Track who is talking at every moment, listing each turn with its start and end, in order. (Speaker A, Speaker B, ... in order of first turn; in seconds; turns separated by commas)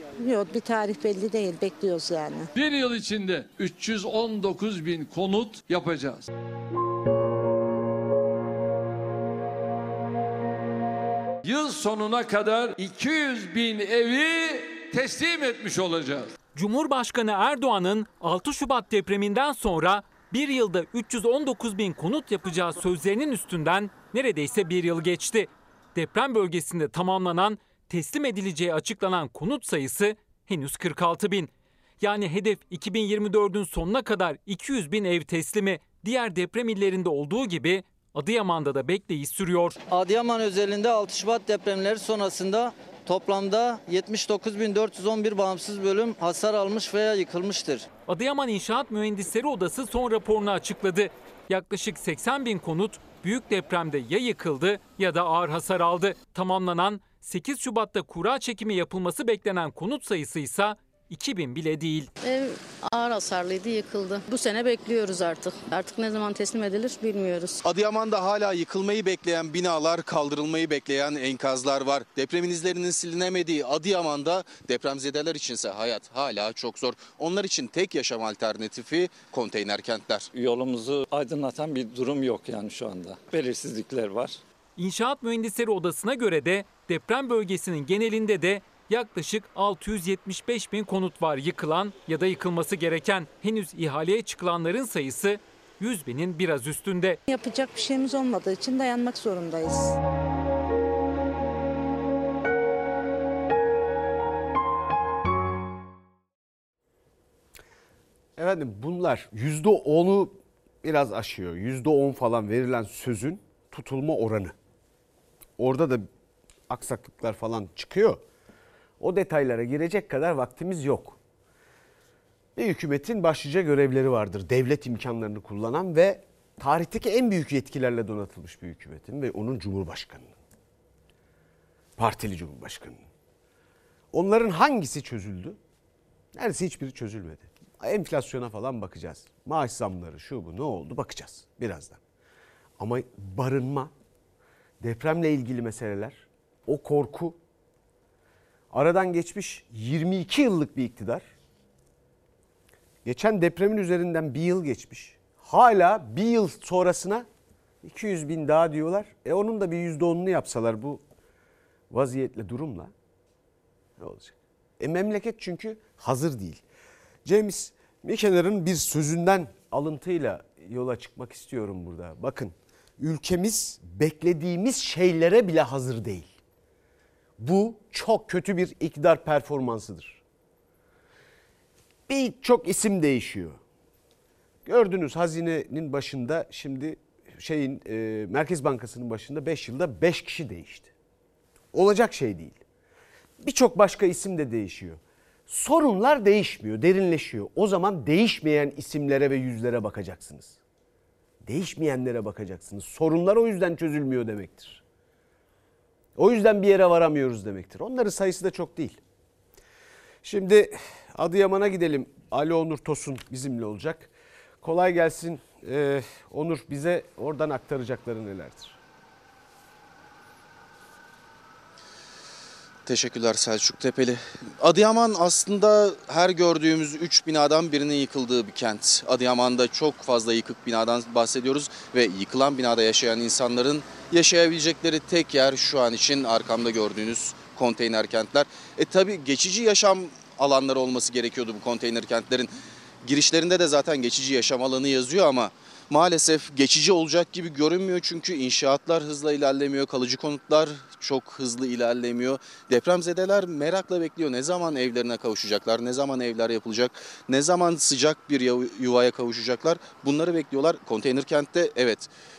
Speaker A: 0.2-2.5, Speaker B: 2.5-6.3, Speaker B: 11.4-16.3, Speaker C: 16.6-39.8, Speaker D: 39.9-47.9, Speaker C: 48.1-62.1, Speaker E: 62.2-67.6, Speaker F: 67.6-80.3, Speaker G: 80.3-84.4, Speaker C: 84.8-97.2, Speaker A: 97.3-100.0, Speaker H: 108.4-114.5, Speaker H: 115.6-116.1, Speaker H: 116.7-118.2, Speaker H: 119.0-121.2, Speaker H: 122.6-130.3, Speaker H: 132.0-133.0, Speaker H: 134.1-135.6, Speaker H: 136.3-142.0, Speaker H: 142.8-143.9, Speaker H: 144.8-147.4, Speaker H: 148.7-151.3, Speaker H: 153.1-157.3, Speaker H: 157.8-161.0, Speaker H: 161.9-162.9, Speaker H: 164.0-166.6, Speaker H: 167.2-176.3, Speaker H: 177.4-180.2, Speaker H: 182.1-183.6, Speaker H: 184.7-190.9, Speaker H: 191.7-192.6, Speaker H: 193.4-200.6, Speaker H: 201.4-204.8, Speaker H: 206.2-209.0, Speaker H: 210.2-214.1, Speaker H: 214.6-218.8, Speaker F: 222.9-242.5, Speaker F: 243.0-262.1